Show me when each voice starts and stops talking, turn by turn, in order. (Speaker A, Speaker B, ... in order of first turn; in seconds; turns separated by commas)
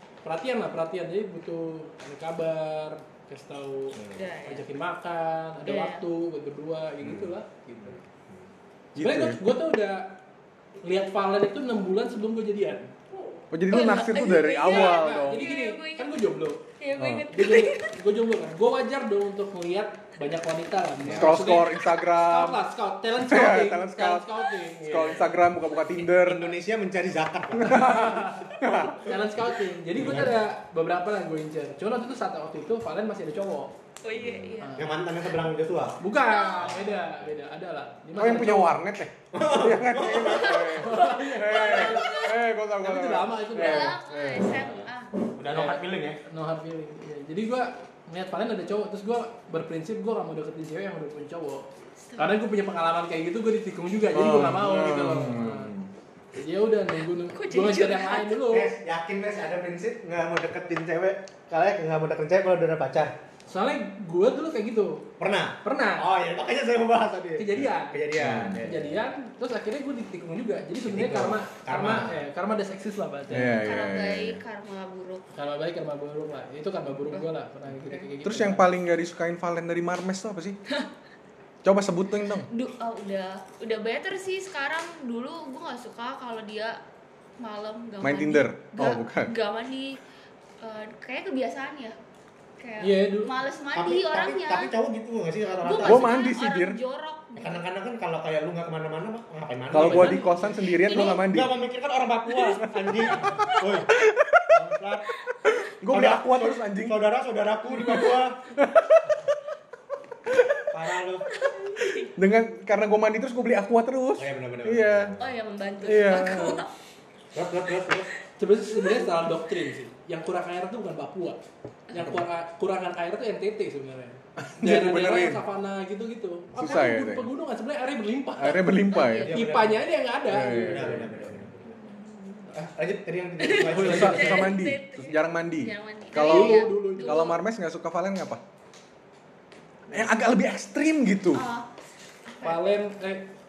Speaker A: 0.2-8.0, Speaker B: 3.9-4.3, Speaker C: 4.1-4.7, Speaker C: 5.6-6.0, Speaker B: 7.0-8.5, Speaker A: 8.9-10.2, Speaker D: 8.9-9.4, Speaker A: 10.8-13.2, Speaker D: 13.5-15.5, Speaker C: 13.7-16.2, Speaker A: 14.6-16.6, Speaker C: 16.8-17.9, Speaker D: 17.0-17.3, Speaker A: 17.3-25.3, Speaker B: 21.1-21.3, Speaker D: 21.1-22.6, Speaker D: 23.1-26.5, Speaker B: 26.2-28.1, Speaker D: 27.5-29.2, Speaker A: 27.7-33.7, Speaker B: 30.0-30.3, Speaker C: 34.0-34.9, Speaker B: 34.2-36.0, Speaker A: 34.6-35.0, Speaker A: 36.0-38.7, Speaker C: 36.2-36.7, Speaker B: 36.6-37.3, Speaker D: 38.1-44.8, Speaker B: 39.3-40.6, Speaker C: 40.2-42.4, Speaker A: 40.7-44.0, Speaker C: 43.5-45.1, Speaker B: 45.3-46.2, Speaker A: 45.5-55.7, Speaker C: 52.0-52.4, Speaker D: 54.1-55.9, Speaker A: 56.3-58.7, Speaker C: 57.3-58.4, Speaker B: 58.5-63.1, Speaker A: 63.5-65.1, Speaker B: 65.2-69.0, Speaker A: 65.6-66.1, Speaker A: 67.4-68.0, Speaker D: 68.2-68.6, Speaker A: 68.6-73.6, Speaker B: 70.8-72.2, Speaker D: 73.3-74.4, Speaker C: 73.6-75.3, Speaker A: 75.3-78.7, Speaker C: 77.1-78.1, Speaker D: 78.2-80.6, Speaker D: 81.6-82.5, Speaker C: 82.5-86.8, Speaker C: 87.4-90.0, Speaker D: 88.0-89.3, Speaker C: 90.6-92.0, Speaker C: 92.6-94.7, Speaker A: 92.8-93.3, Speaker B: 93.8-96.2, Speaker C: 95.6-97.7, Speaker D: 95.8-96.8, Speaker B: 97.4-100.3, Speaker D: 99.7-101.5, Speaker A: 99.7-100.6, Speaker C: 100.7-101.3, Speaker B: 100.9-103.9, Speaker C: 102.4-103.8, Speaker D: 103.9-104.5, Speaker B: 104.5-105.1, Speaker D: 105.4-107.0, Speaker B: 105.9-108.5, Speaker C: 107.8-108.2, Speaker D: 108.5-109.2, Speaker B: 110.7-111.3, Speaker C: 111.3-112.1, Speaker D: 112.2-115.1, Speaker B: 114.2-115.3, Speaker C: 115.2-116.7, Speaker D: 115.8-116.6, Speaker B: 117.3-118.1, Speaker A: 118.4-128.7, Speaker C: 118.7-119.2, Speaker D: 122.0-122.2, Speaker D: 124.4-125.4, Speaker D: 126.5-127.3, Speaker D: 128.4-129.3, Speaker C: 128.9-129.4, Speaker B: 129.2-129.9, Speaker A: 129.3-131.1, Speaker D: 130.3-131.4, Speaker B: 130.6-131.8, Speaker C: 131.8-132.4, Speaker B: 132.5-134.4, Speaker C: 133.4-137.4, Speaker A: 133.5-134.5, Speaker D: 133.8-138.4, Speaker A: 136.2-137.3, Speaker D: 139.9-141.4, Speaker C: 141.3-141.7, Speaker C: 142.3-142.7, Speaker A: 142.4-143.3